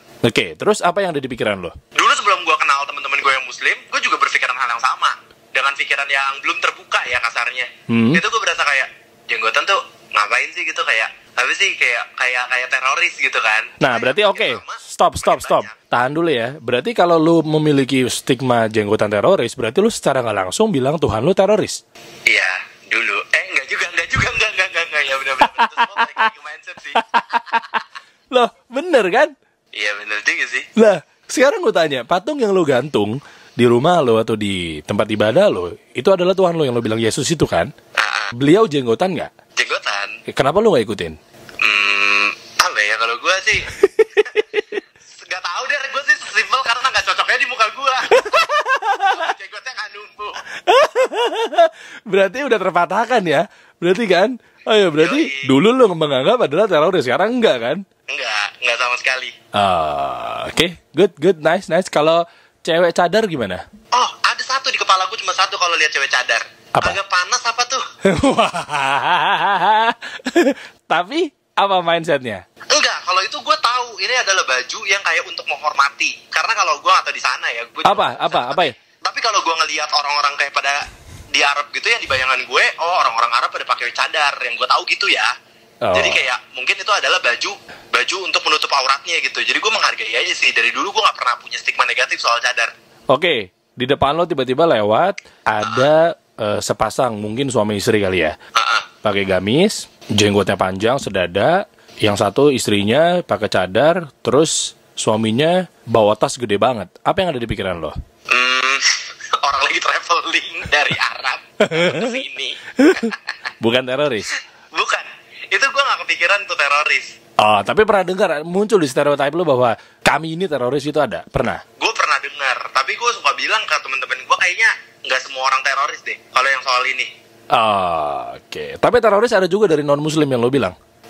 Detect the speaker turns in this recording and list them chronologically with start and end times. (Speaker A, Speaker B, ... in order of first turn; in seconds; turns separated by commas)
Speaker A: 0.2-1.7, Speaker B: 1.9-15.8, Speaker A: 7.9-8.2, Speaker A: 13.8-21.8, Speaker B: 22.3-27.4, Speaker A: 25.6-26.1, Speaker A: 26.9-27.8, Speaker A: 28.3-29.3, Speaker B: 29.7-30.7, Speaker A: 30.8-37.7, Speaker B: 38.0-38.3, Speaker A: 38.3-39.3, Speaker B: 39.5-40.1, Speaker A: 40.3-41.2, Speaker B: 41.6-43.7, Speaker A: 43.9-44.8, Speaker B: 44.3-44.6, Speaker B: 45.2-48.3, Speaker A: 48.1-49.3, Speaker B: 49.0-50.4, Speaker A: 50.6-57.8, Speaker B: 55.0-55.5, Speaker B: 58.1-59.3, Speaker A: 59.5-63.6, Speaker B: 63.9-67.8, Speaker A: 68.0-72.4, Speaker B: 72.7-80.8, Speaker A: 77.8-78.7, Speaker B: 81.3-85.3, Speaker A: 85.8-86.2, Speaker B: 85.9-92.7, Speaker A: 93.1-98.3, Speaker B: 95.6-95.9, Speaker B: 98.5-98.9, Speaker A: 99.0-107.9, Speaker B: 108.3-113.2, Speaker A: 111.6-112.1, Speaker A: 112.8-114.3, Speaker B: 114.3-117.1, Speaker A: 117.4-121.6, Speaker B: 121.8-127.1, Speaker A: 127.5-130.7